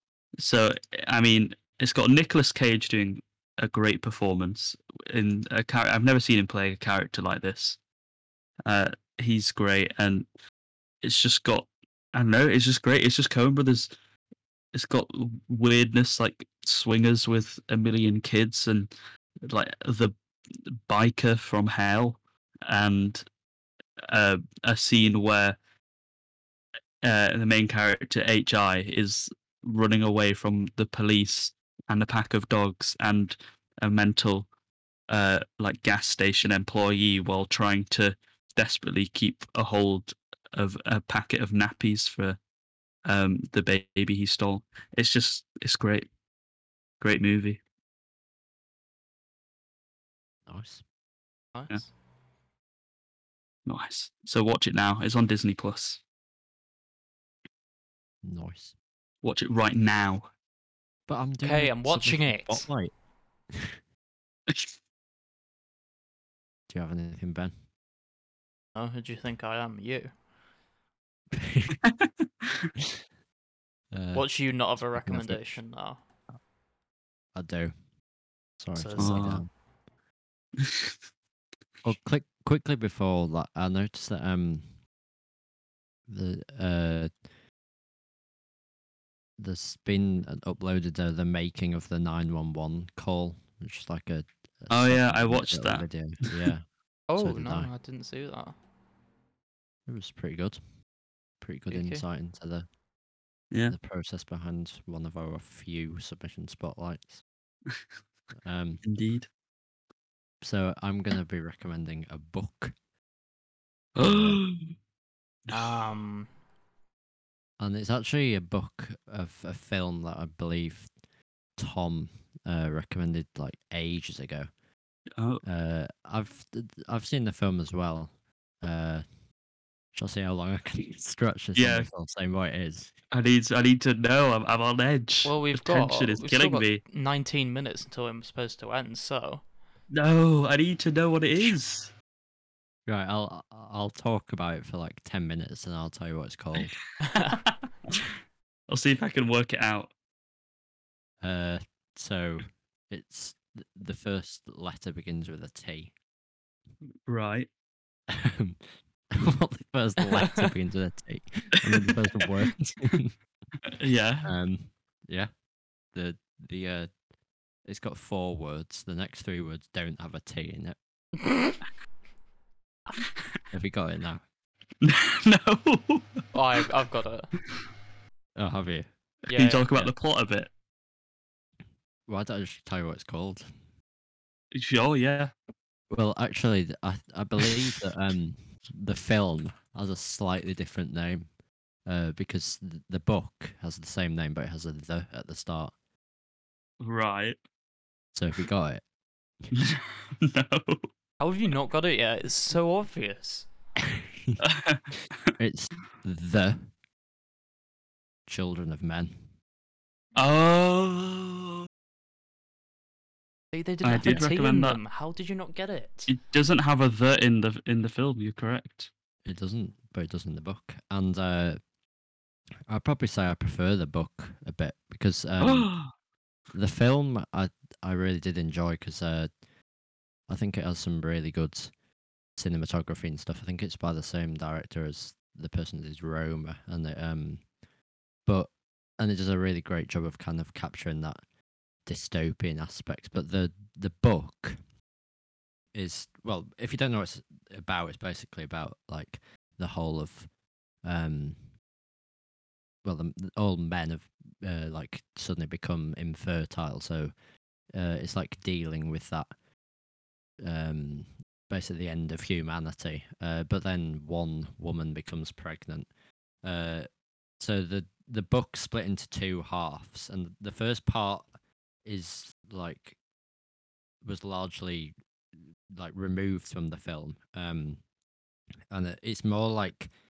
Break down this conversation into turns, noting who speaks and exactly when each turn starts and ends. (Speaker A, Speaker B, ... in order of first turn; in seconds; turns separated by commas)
Speaker A: 0.4-7.8, Speaker A: 8.7-10.3, Speaker A: 11.0-13.9, Speaker A: 14.7-18.9, Speaker A: 19.4-23.2, Speaker A: 24.1-25.6, Speaker A: 27.0-34.5, Speaker A: 35.1-42.4, Speaker A: 43.0-46.1, Speaker A: 47.0-47.6, Speaker B: 50.5-50.8, Speaker C: 51.5-51.9, Speaker A: 53.7-56.0, Speaker B: 58.2-58.8, Speaker A: 59.2-60.3, Speaker B: 61.1-63.7, Speaker C: 61.4-62.7, Speaker B: 66.7-67.6, Speaker C: 68.8-70.2, Speaker B: 71.3-71.8, Speaker A: 71.8-72.7, Speaker B: 73.9-75.6, Speaker C: 74.1-76.0, Speaker B: 77.3-77.9, Speaker B: 78.6-79.5, Speaker C: 78.8-79.3, Speaker A: 79.0-79.5, Speaker A: 80.6-81.0, Speaker B: 81.8-84.8, Speaker B: 86.1-87.2, Speaker B: 89.4-97.7, Speaker A: 94.7-96.4, Speaker C: 97.1-98.6, Speaker B: 99.9-100.8, Speaker B: 101.4-102.7, Speaker C: 101.7-102.0, Speaker A: 103.5-103.8, Speaker B: 103.7-107.2, Speaker B: 108.4-108.8, Speaker A: 108.8-109.3, Speaker B: 110.4-112.8, Speaker A: 114.0-114.7, Speaker B: 114.0-114.4, Speaker C: 115.5-116.3, Speaker B: 117.6-120.9, Speaker B: 121.5-124.5, Speaker A: 125.2-125.4, Speaker B: 125.4-129.3, Speaker B: 129.9-132.9, Speaker A: 131.6-131.9, Speaker A: 133.1-136.8, Speaker C: 135.2-139.4, Speaker A: 139.9-141.9, Speaker B: 142.9-146.8, Speaker C: 147.1-147.5, Speaker A: 147.5-148.0, Speaker A: 148.7-149.9, Speaker B: 151.2-155.9, Speaker A: 157.1-157.5, Speaker B: 158.1-163.2, Speaker A: 163.7-164.3, Speaker B: 164.2-165.4, Speaker B: 165.9-167.0, Speaker B: 167.6-170.8, Speaker C: 171.2-171.6, Speaker B: 173.5-174.3, Speaker A: 174.8-176.2, Speaker C: 176.3-177.3, Speaker B: 178.4-178.9, Speaker C: 179.3-179.9, Speaker A: 179.3-180.5, Speaker B: 182.1-183.5, Speaker A: 184.5-185.3, Speaker B: 185.9-195.7, Speaker A: 196.8-197.4, Speaker B: 198.1-198.9, Speaker A: 199.5-200.9, Speaker C: 201.2-203.5, Speaker A: 204.4-204.8, Speaker B: 205.4-206.7, Speaker B: 208.3-209.2, Speaker A: 210.2-211.6, Speaker C: 213.5-216.2, Speaker A: 213.8-214.8, Speaker A: 216.1-218.9, Speaker B: 219.2-221.6, Speaker B: 222.7-225.8, Speaker A: 225.4-225.9, Speaker B: 226.5-229.4, Speaker B: 230.3-231.8, Speaker B: 232.3-237.5, Speaker B: 238.2-241.2, Speaker B: 241.8-244.6, Speaker B: 245.7-251.5, Speaker B: 252.8-257.1, Speaker B: 257.7-259.4, Speaker B: 260.4-271.3, Speaker B: 271.8-273.0, Speaker B: 274.0-274.9, Speaker B: 275.5-277.8, Speaker B: 278.7-279.9